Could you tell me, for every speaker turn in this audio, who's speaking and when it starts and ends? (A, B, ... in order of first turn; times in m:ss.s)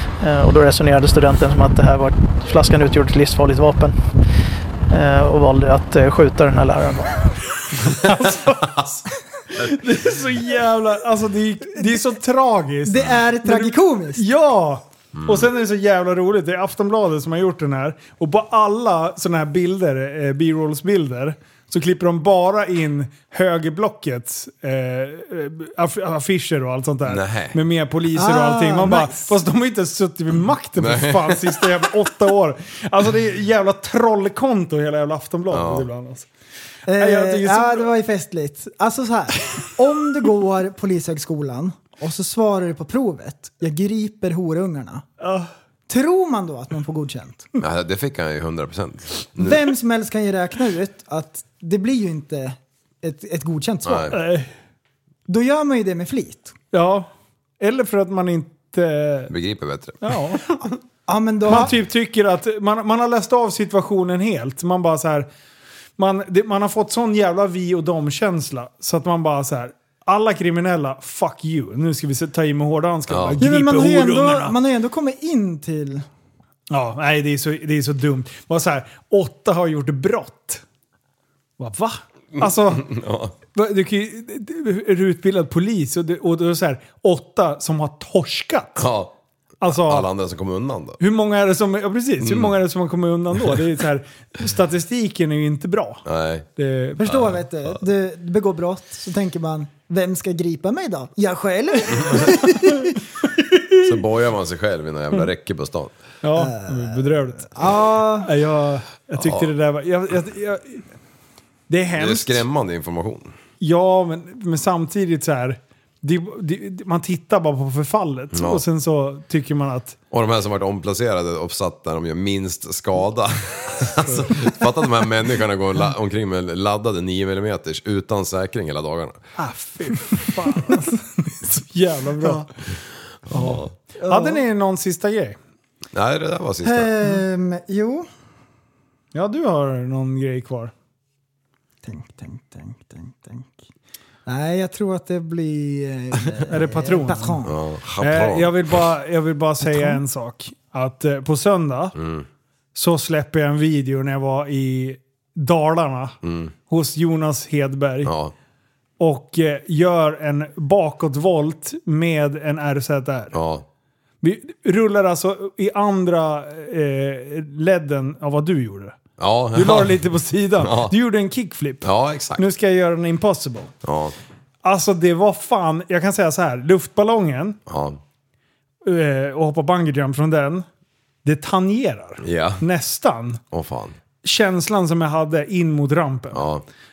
0:00.2-0:04.0 A
0:04.9-0:07.2 A
0:07.9-0:09.0 B
0:09.6-0:36.3 B
0:11.8-0:12.0 C
0:12.9-0:14.2 C
0:15.2-0:15.5 D
0:27.1-0:27.6 D
0:28.1-0:29.3 C
0:30.8-0:31.7 D
0:35.5-0:35.9 D
0:36.9-0:45.0 C
0:37.0-0:37.9 B
0:45.2-0:45.5 B
0:45.9-0:47.5 C
0:47.6-0:49.6 D
0:49.4-0:54.2 C
0:53.9-0:54.1 D
0:54.1-0:54.5 B
0:55.3-0:56.5 C
0:56.7-0:57.1 B
0:57.6-0:59.3 B
0:59.3-1:00.0 D
1:00.0-1:00.6 B
1:01.1-1:01.7 C
1:01.5-1:05.3 B
1:06.0-1:14.6 B
1:13.1-1:13.4 D
1:13.4-1:16.0 C
1:16.7-1:20.6 B
1:21.6-1:22.9 B
1:22.4-1:23.3 D
1:23.5-1:28.9 B
1:28.8-1:29.1 D
1:29.6-1:30.1 B
1:29.6-1:31.0 D
1:31.0-1:36.0 B
1:32.2-1:32.6 D
1:36.0-1:36.5 D
1:36.6-1:37.2 B
1:37.0-1:43.0 C
1:43.5-1:43.9 B
1:43.8-1:46.0 D
1:46.2-1:47.6 B
1:46.4-1:48.3 C
1:48.2-1:50.8 B
1:49.2-1:49.5 D
1:51.7-1:52.4 B
1:52.0-1:53.3 D
1:53.6-2:00.0 B
1:58.3-1:58.6 D
2:00.1-2:09.2 D
2:04.0-2:04.3 B
2:09.4-2:12.5 B
2:13.3-2:13.7 D
2:13.3-2:15.4 B
2:14.0-2:14.4 C
2:15.9-2:16.9 D
2:16.6-2:18.1 C
2:19.1-2:20.7 B
2:21.8-2:23.6 C
2:24.3-2:27.5 C
2:26.5-2:27.4 B
2:27.5-2:28.8 D
2:28.0-2:32.0 B
2:29.6-2:30.0 C
2:32.0-2:32.2 D
2:32.8-2:36.2 B
2:36.2-2:36.5 D
2:36.7-2:38.1 B
2:38.0-2:38.3 D
2:39.0-2:43.3 B
2:43.3-2:43.6 D
2:44.2-2:49.0 B
2:49.2-2:50.0 D
2:49.5-2:53.7 B
2:50.6-2:50.9 D
2:51.8-2:52.4 D
2:53.8-2:54.2 D
2:54.6-2:57.6 B
2:57.7-2:58.0 D
2:58.8-3:00.6 B
3:01.2-3:03.4 B
3:02.2-3:02.6 D
3:03.5-3:04.0 D
3:04.2-3:06.5 B
3:06.3-3:06.6 D